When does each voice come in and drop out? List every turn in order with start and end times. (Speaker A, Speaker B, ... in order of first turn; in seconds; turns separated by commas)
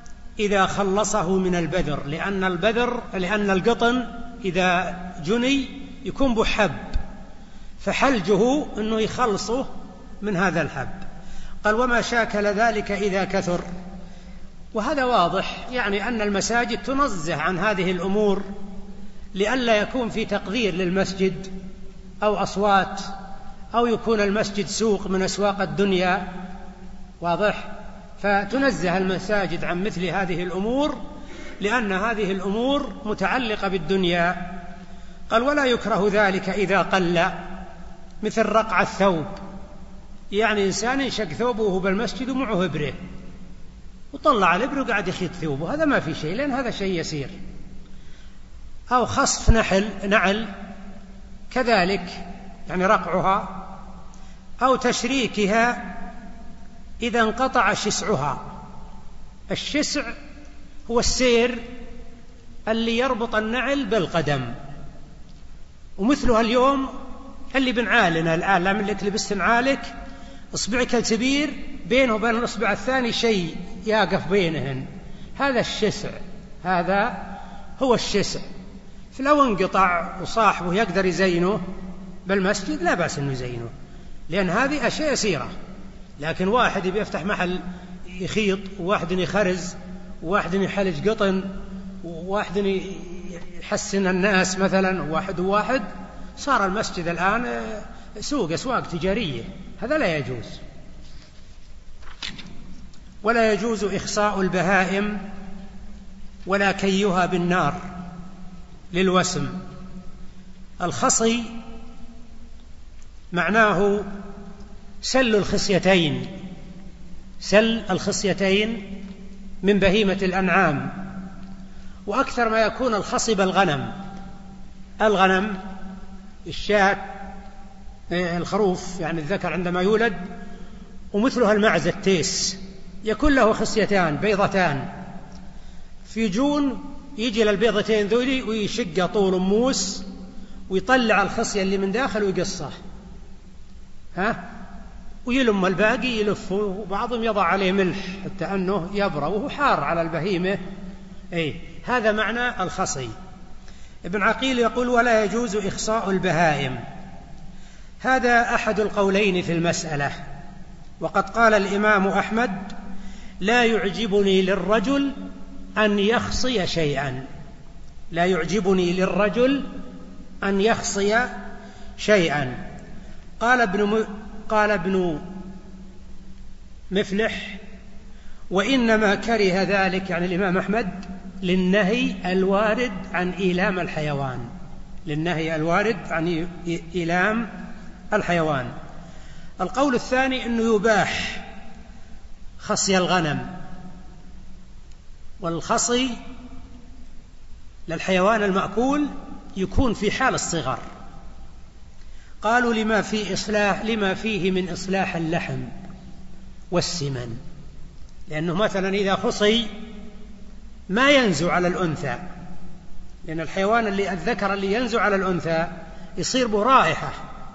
Speaker A: 0.4-7.0, Speaker A: 7.8-9.7, Speaker A: 10.2-11.0, Speaker A: 11.6-13.6, Speaker A: 14.7-18.5, Speaker A: 19.4-21.5, Speaker A: 22.2-23.1, Speaker A: 23.7-26.3, Speaker A: 27.2-31.0, Speaker A: 31.6-34.6, Speaker A: 35.3-37.4, Speaker A: 38.2-39.4, Speaker A: 40.3-43.0, Speaker A: 44.1-47.4, Speaker A: 48.9-50.5, Speaker A: 51.5-53.6, Speaker A: 54.6-56.0, Speaker A: 57.0-58.5, Speaker A: 59.5-60.1, Speaker A: 60.9-61.6, Speaker A: 62.7-64.5, Speaker A: 66.0-66.9, Speaker A: 67.5-69.9, Speaker A: 70.5-77.2, Speaker A: 77.8-78.4, Speaker A: 79.1-81.6, Speaker A: 82.3-83.7, Speaker A: 84.3-85.5, Speaker A: 86.2-95.9, Speaker A: 96.4-100.6, Speaker A: 103.2-105.2, Speaker A: 106.5-107.8, Speaker A: 108.9-109.6, Speaker A: 110.8-111.5, Speaker A: 113.3-114.1, Speaker A: 115.0-116.3, Speaker A: 117.4-119.0, Speaker A: 119.6-121.1, Speaker A: 122.1-123.9, Speaker A: 125.0-125.6, Speaker A: 126.5-127.2, Speaker A: 128.1-130.3, Speaker A: 131.1-134.9, Speaker A: 136.1-140.1, Speaker A: 140.7-142.8, Speaker A: 144.2-144.4, Speaker A: 145.3-150.6, Speaker A: 151.3-153.1, Speaker A: 154.1-156.8, Speaker A: 158.0-160.2, Speaker A: 161.0-162.7, Speaker A: 163.4-165.2, Speaker A: 165.8-167.3, Speaker A: 168.1-169.7, Speaker A: 170.4-171.3, Speaker A: 172.0-172.6, Speaker A: 173.4-175.3, Speaker A: 176.9-177.6, Speaker A: 178.5-184.5, Speaker A: 185.1-187.5, Speaker A: 188.1-188.7, Speaker A: 189.6-191.5, Speaker A: 192.6-193.5, Speaker A: 195.4-196.2, Speaker A: 197.9-200.8, Speaker A: 202.4-205.7, Speaker A: 206.7-207.4, Speaker A: 208.3-209.7, Speaker A: 210.9-212.2, Speaker A: 213.2-217.2